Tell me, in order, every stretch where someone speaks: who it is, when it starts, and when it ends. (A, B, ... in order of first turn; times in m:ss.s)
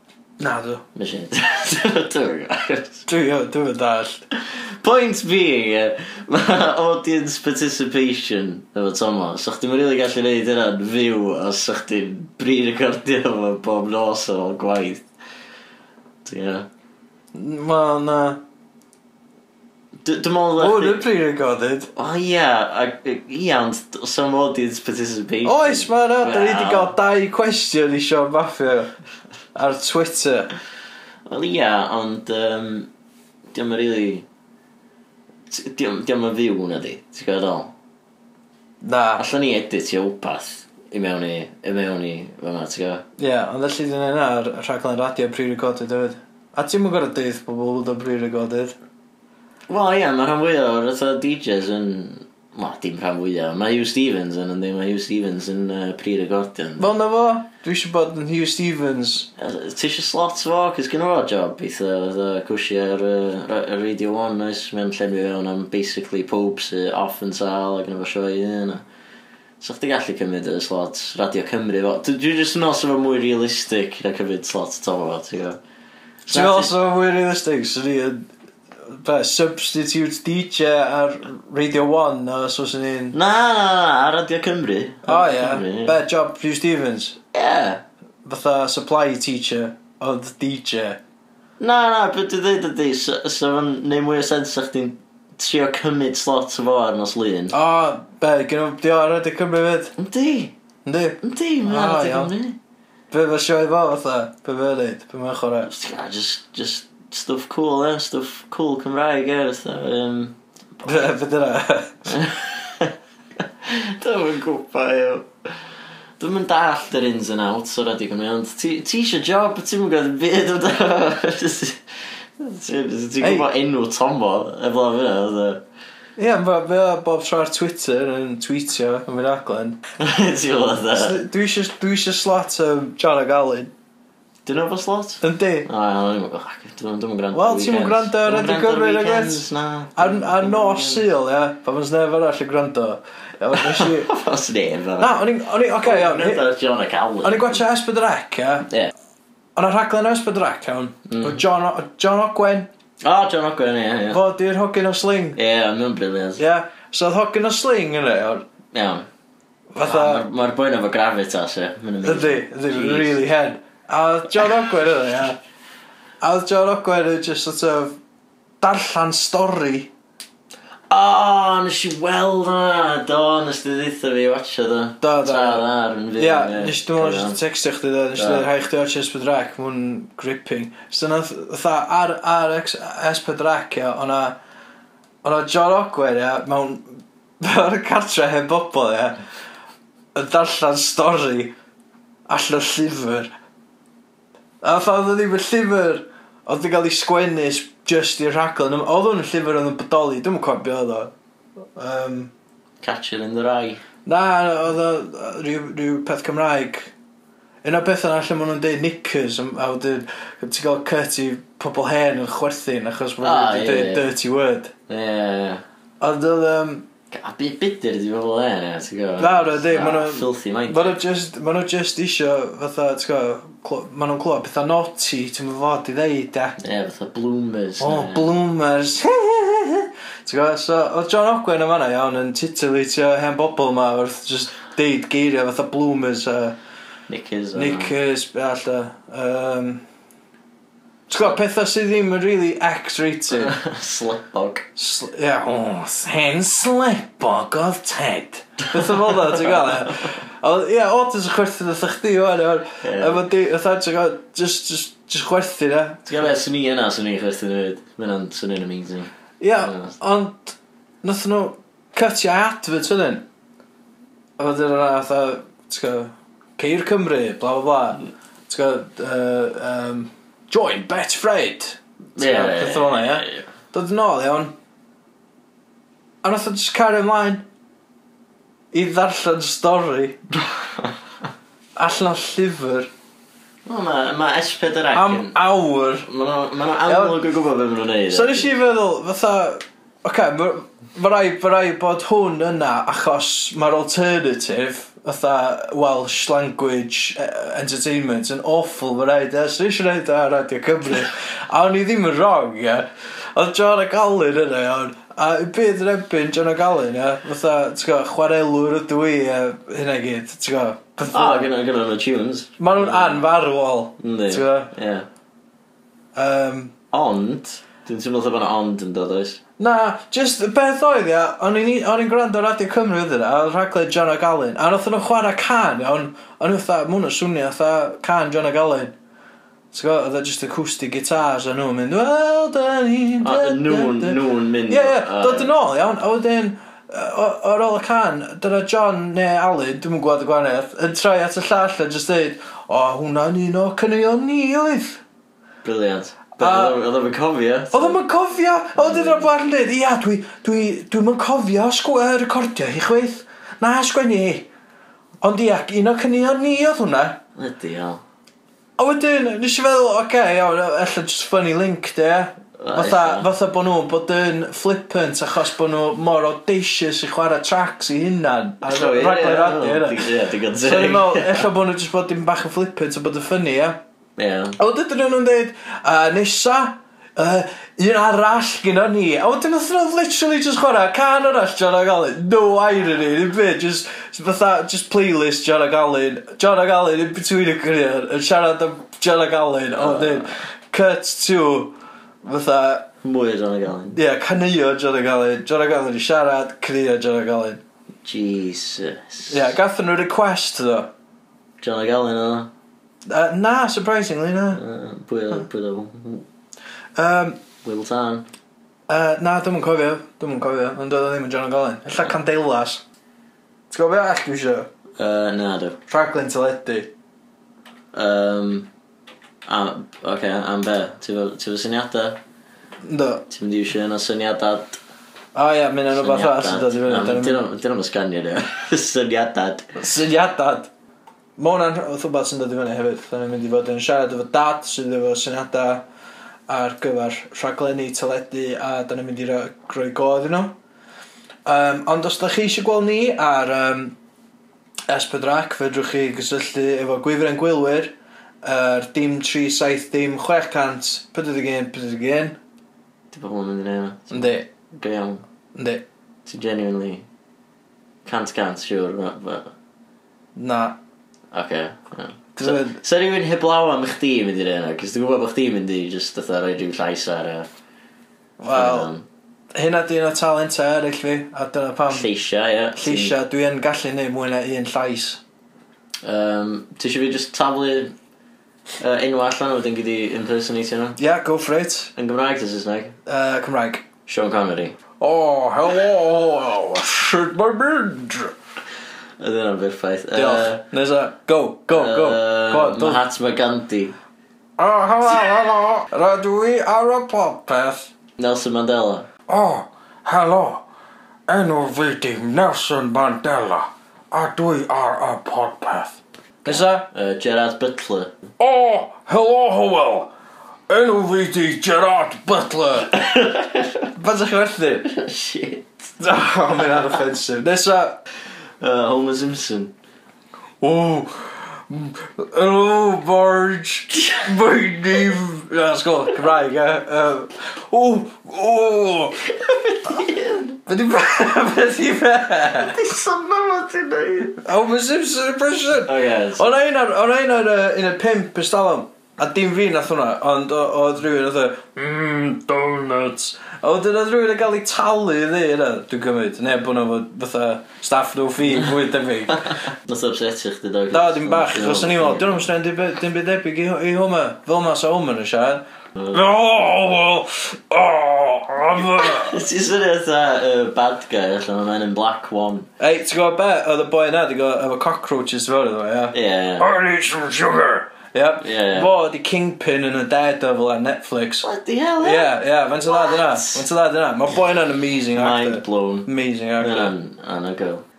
0:00.4-0:00.8 A
0:01.0-0:03.0 B
0:03.1-0:04.2 A
0:04.3-0:15.1 B
0:16.2-0:16.7 B
0:17.3-0:18.4 A
0:20.0-0:21.0 B
0:20.6-0:21.9 A
0:22.0-0:26.9 B
0:25.4-0:28.9 A
0:29.6-0:30.5 A
0:31.3-0:32.9 B
0:33.5-0:34.2 B
0:35.5-0:37.7 B
0:38.8-0:39.2 A
0:39.2-0:43.0 B
0:43.2-0:48.8 A
0:49.7-0:56.9 B
0:56.8-0:59.3 A
0:59.4-1:08.8 B
1:09.6-1:15.6 B
1:16.3-1:16.7 B
1:16.3-1:18.3 A
1:18.8-1:23.2 A
1:23.1-1:26.0 B
1:25.0-1:27.2 A
1:27.3-1:27.8 B
1:28.2-1:31.0 A
1:31.6-1:37.5 B
1:37.5-1:40.0 A
1:40.0-1:40.5 B
1:40.9-1:42.3 A
1:41.2-1:42.6 B
1:43.1-1:45.7 A
1:45.7-1:50.4 B
1:50.8-1:52.1 A
1:52.1-1:52.9 B
1:53.6-1:55.7 B
1:56.2-2:05.6 B
2:03.2-2:03.5 A
2:06.2-2:09.8 A
2:10.0-2:11.2 B
2:11.0-2:13.7 A
2:14.5-2:21.1 B
2:15.2-2:15.7 A
2:17.3-2:24.1 A
2:23.6-2:25.3 B
2:25.0-2:26.4 A
2:25.8-2:27.6 B
2:27.2-2:28.7 A
2:29.6-2:32.7 A
2:31.1-2:31.4 B
2:33.0-2:34.2 B
2:34.1-2:35.4 A
2:35.4-2:36.4 B
2:36.4-2:38.5 A
2:38.7-2:39.1 B
2:39.7-2:40.2 A
2:39.8-2:43.2 B
2:42.0-2:45.4 A
2:46.2-2:48.0 A
2:48.6-2:49.9 A
2:50.9-2:57.4 B
2:55.0-2:55.6 A
2:56.2-3:04.4 A
2:58.2-2:58.5 B
3:05.2-3:09.2 A
3:10.2-3:11.5 A
3:12.3-3:13.3 A
3:14.6-3:21.1 A
3:21.8-3:22.3 A
3:22.8-3:23.8 B
3:24.1-3:26.9 A
3:27.6-3:34.7 A
3:33.2-3:34.1 B
3:34.9-3:35.6 B
3:36.0-3:36.9 A
3:37.1-3:41.0 B
3:39.2-3:46.6 A
3:46.6-3:48.4 B
3:47.8-3:56.6 A
3:57.1-3:57.9 B
3:57.6-3:59.8 A
4:01.1-4:03.6 A
4:03.3-4:04.7 B
4:04.8-4:16.0 A
4:09.7-4:10.1 B
4:12.8-4:13.2 B
4:16.1-4:20.0 B
4:19.4-4:23.3 A
4:24.4-4:34.5 A
4:32.2-4:33.5 B
4:36.2-4:37.5 A
4:38.7-4:40.5 A
4:41.8-4:42.9 A
4:43.7-4:45.4 B
4:44.9-4:46.1 A
4:46.0-4:48.5 B
4:46.9-4:47.2 A
4:48.1-5:11.5 A
5:11.1-5:13.2 B
5:12.6-5:14.7 A
5:14.0-5:15.1 B
5:16.2-5:16.7 A
5:16.9-5:19.4 B
5:19.6-5:29.0 A
5:29.7-5:45.0 A
5:33.2-5:35.5 B
5:45.6-5:48.0 B
5:46.4-5:46.8 A
5:47.7-5:54.5 A
5:48.8-5:49.4 B
5:55.2-5:57.2 A
5:57.4-5:58.0 B
5:58.8-6:13.8 A
6:02.6-6:03.3 B
6:08.6-6:11.5 B
6:14.2-6:14.6 B
6:14.6-6:32.9 A
6:29.8-6:30.3 B
6:33.0-6:34.0 B
6:33.9-6:37.6 A
6:38.0-6:39.5 B
6:39.3-6:40.9 A
6:41.6-6:42.5 B
6:43.1-6:44.6 A
6:44.6-6:46.3 B
6:47.0-6:47.4 A
6:47.6-6:48.3 B
6:48.9-6:52.8 A
6:53.7-6:54.7 A
6:55.0-6:55.8 B
6:55.9-6:56.9 A
6:57.9-6:58.7 B
6:59.4-7:02.2 B
7:02.8-7:03.2 A
7:03.3-7:04.8 B
7:05.3-7:07.4 A
7:05.9-7:09.7 B
7:09.8-7:10.7 A
7:11.4-7:15.8 A
7:16.5-7:20.6 A
7:21.5-7:24.0 A
7:24.9-7:32.4 A
7:33.1-7:35.2 B
7:34.1-7:34.5 A
7:35.6-7:35.8 A
7:36.3-7:37.0 B
7:38.0-7:39.5 B
7:40.4-7:40.8 A
7:41.3-7:47.5 B
7:42.4-7:42.8 A
7:48.4-7:48.9 A
7:48.5-7:49.0 B
7:49.5-7:52.1 A
7:51.9-7:53.2 B
7:52.8-7:55.2 A
7:56.0-7:57.9 B
7:58.8-8:01.0 B
8:01.0-8:01.9 A
8:02.0-8:03.0 B
8:03.1-8:03.9 A
8:04.1-8:04.8 B
8:05.0-8:08.3 A
8:09.2-8:10.6 B
8:10.1-8:13.0 A
8:11.7-8:14.0 B
8:14.6-8:17.9 A
8:18.2-8:19.1 B
8:19.3-8:20.6 A
8:21.3-8:26.9 A
8:26.4-8:28.1 B
8:28.4-8:30.1 A
8:30.7-8:32.9 A
8:32.9-8:33.9 B
8:34.0-8:34.9 A
8:34.9-8:35.9 B
8:36.0-8:38.0 A
8:38.6-8:39.7 B
8:40.6-8:49.3 A
8:49.4-8:50.6 B
8:50.7-8:52.8 A
8:52.6-8:54.4 B
8:54.4-9:09.7 A
8:55.9-8:56.5 B
9:09.3-9:12.5 B
9:10.9-9:19.4 A
9:19.0-9:22.7 B
9:22.8-9:31.5 A
9:26.1-9:26.7 B
9:28.4-9:28.9 B
9:31.4-9:33.6 B
9:32.0-9:36.9 A
9:35.2-9:37.8 B